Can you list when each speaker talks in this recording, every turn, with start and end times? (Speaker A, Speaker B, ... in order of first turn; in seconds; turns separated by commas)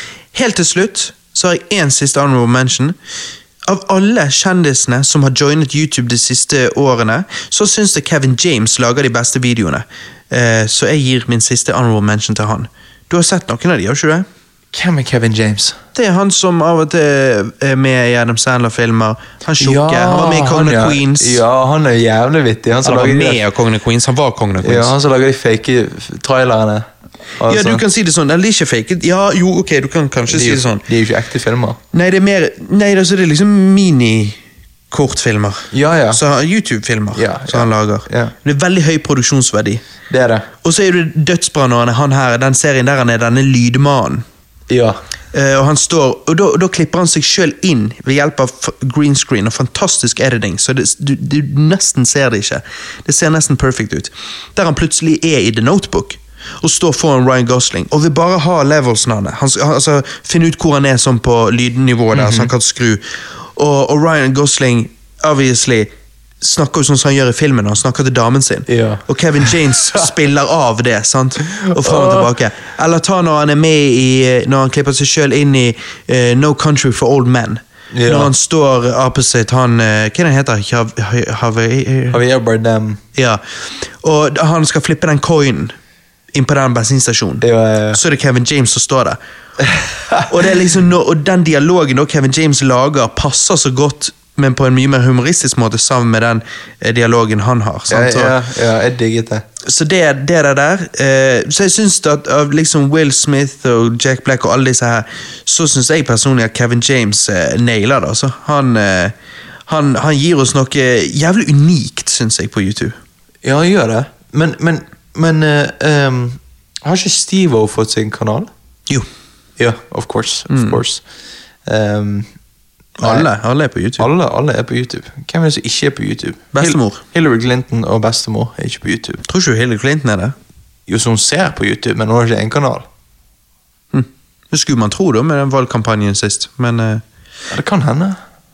Speaker A: 0.3-3.0, Speaker A: 3.6-14.2, Speaker B: 14.7-15.8, Speaker A: 15.9-21.4, Speaker B: 19.6-23.4, Speaker A: 22.8-24.9, Speaker B: 24.6-26.9, Speaker B: 27.4-27.8, Speaker A: 27.5-30.8, Speaker B: 30.3-31.8, Speaker A: 31.9-34.4, Speaker A: 34.9-39.8, Speaker B: 35.7-36.2, Speaker B: 37.1-38.3, Speaker B: 40.1-40.5, Speaker A: 40.6-44.2, Speaker B: 44.7-45.0, Speaker A: 45.3-63.0, Speaker B: 62.1-62.5, Speaker A: 63.5-82.2, Speaker B: 68.7-69.7, Speaker B: 71.7-72.3, Speaker B: 77.9-78.3, Speaker B: 82.1-83.0, Speaker A: 83.1-85.7, Speaker A: 86.3-89.2, Speaker B: 87.4-88.0, Speaker B: 89.6-90.2, Speaker A: 90.3-98.3, Speaker B: 97.9-99.4, Speaker A: 99.6-109.1, Speaker A: 109.7-113.0, Speaker B: 113.4-118.5, Speaker B: 119.6-121.0, Speaker A: 120.5-120.8, Speaker B: 121.7-122.3, Speaker A: 123.0-124.1, Speaker B: 123.0-123.3, Speaker B: 124.0-129.2, Speaker A: 126.5-127.0, Speaker A: 129.3-130.3, Speaker B: 130.9-132.8, Speaker A: 133.9-137.0, Speaker B: 137.5-138.2